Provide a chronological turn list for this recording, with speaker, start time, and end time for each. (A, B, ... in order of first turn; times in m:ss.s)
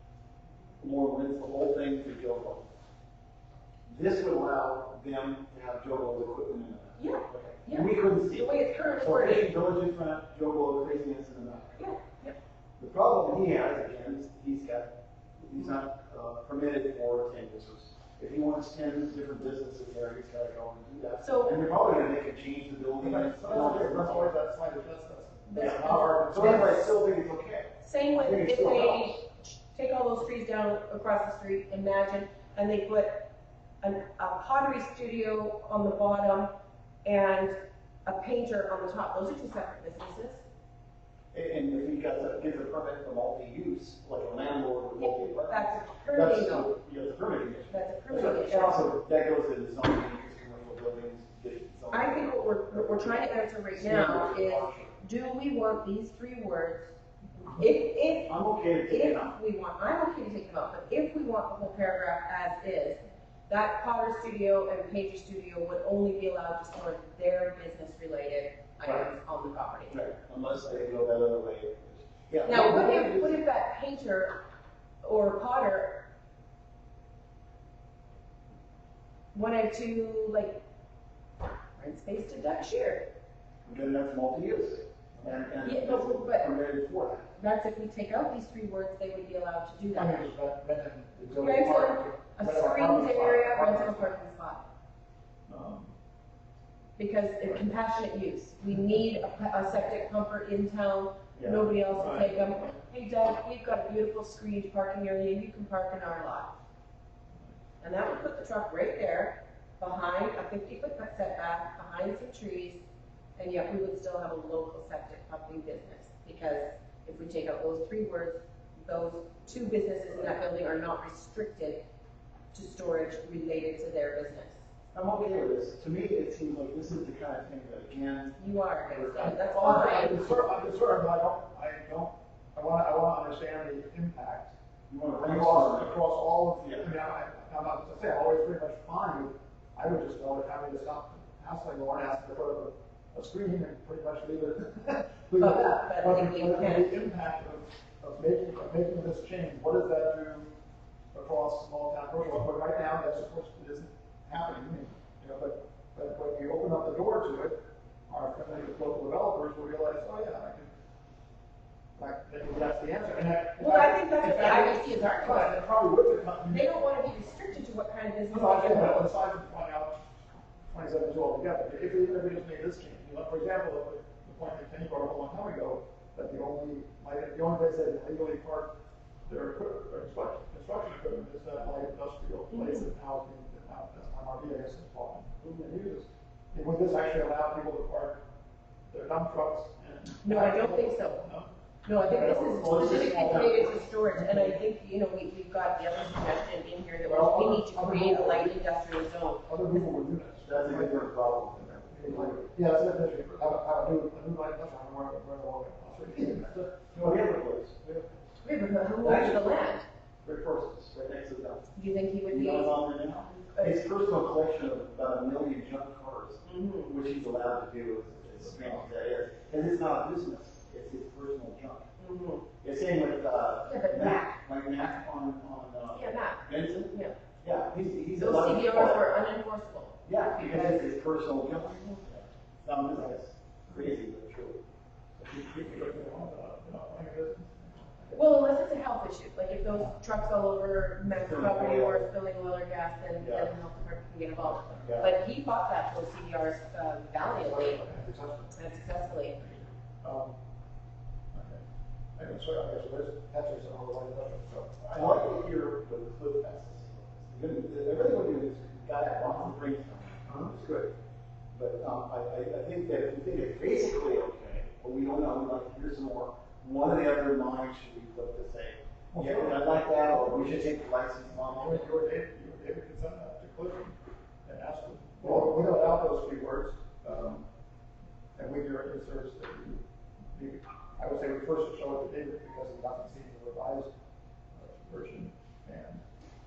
0:00.8-0:02.7 A
0:03.9-0:11.9 A
0:07.0-0:09.5 B
0:11.8-0:12.4 B
0:12.8-0:24.3 A
0:21.2-0:21.6 B
0:23.0-0:26.8 C
0:25.5-0:26.8 B
0:25.6-0:29.2 A
0:27.8-0:33.3 B
0:33.8-0:36.5 B
0:37.0-0:40.4 B
0:41.3-0:55.0 A
0:45.0-0:46.7 B
0:47.7-0:48.9 B
0:51.9-0:56.9 B
0:57.5-0:58.3 B
0:58.3-0:59.3 A
0:58.9-1:10.0 B
1:09.9-1:13.4 A
1:12.4-1:14.4 B
1:15.0-1:16.0 B
1:19.3-1:20.6 B
1:21.8-1:23.0 B
1:23.6-1:27.3 A
1:25.1-1:25.4 C
1:25.6-1:26.5 B
1:27.4-1:30.3 B
1:29.9-1:34.2 C
1:31.4-1:34.7 B
1:35.5-1:35.9 C
1:37.0-1:46.6 B
1:41.3-1:41.7 A
1:41.9-1:42.8 C
1:47.8-1:52.8 B
1:53.4-2:01.8 B
2:02.5-2:04.6 B
2:04.9-2:08.3 A
2:08.4-2:10.2 B
2:08.9-2:10.1 A
2:09.4-2:14.5 C
2:14.9-2:15.9 A
2:15.2-2:30.5 C
2:16.6-2:16.9 A
2:25.4-2:27.0 B
2:31.1-2:37.6 C
2:38.1-2:40.7 C
2:42.0-2:46.8 C
2:43.6-2:45.7 B
2:46.5-2:49.1 B
2:48.3-2:50.0 C
2:50.7-2:58.7 C
2:59.2-3:08.2 C
3:02.5-3:02.9 B
3:05.4-3:05.7 B
3:08.9-3:13.0 C
3:10.2-3:11.2 B
3:11.8-3:19.9 B
3:12.2-3:13.9 A
3:14.0-3:14.6 C
3:17.0-3:18.6 C
3:19.5-3:27.1 C
3:20.4-3:22.4 A
3:26.9-3:27.9 A
3:27.8-3:28.2 C
3:28.4-3:29.8 B
3:29.0-3:29.6 A
3:30.2-3:31.7 A
3:31.8-3:33.8 B
3:32.3-3:41.9 A
3:36.4-3:36.9 B
3:42.0-3:42.4 B
3:42.6-3:49.1 A
3:43.6-3:44.4 B
3:45.9-3:47.2 B
3:48.2-3:50.8 B
3:50.0-3:54.6 A
3:55.2-3:58.3 C
3:58.1-4:07.8 B
4:01.1-4:02.1 A
4:03.2-4:03.5 A
4:04.8-4:05.1 A
4:07.4-4:10.4 C
4:08.5-4:09.4 B
4:11.3-4:11.6 C
4:12.2-4:15.2 C
4:14.8-4:20.9 A
4:20.2-4:20.6 C
4:21.5-4:31.9 A
4:29.1-4:30.6 C
4:31.4-4:37.4 C
4:38.4-4:43.9 C
4:44.5-4:46.0 C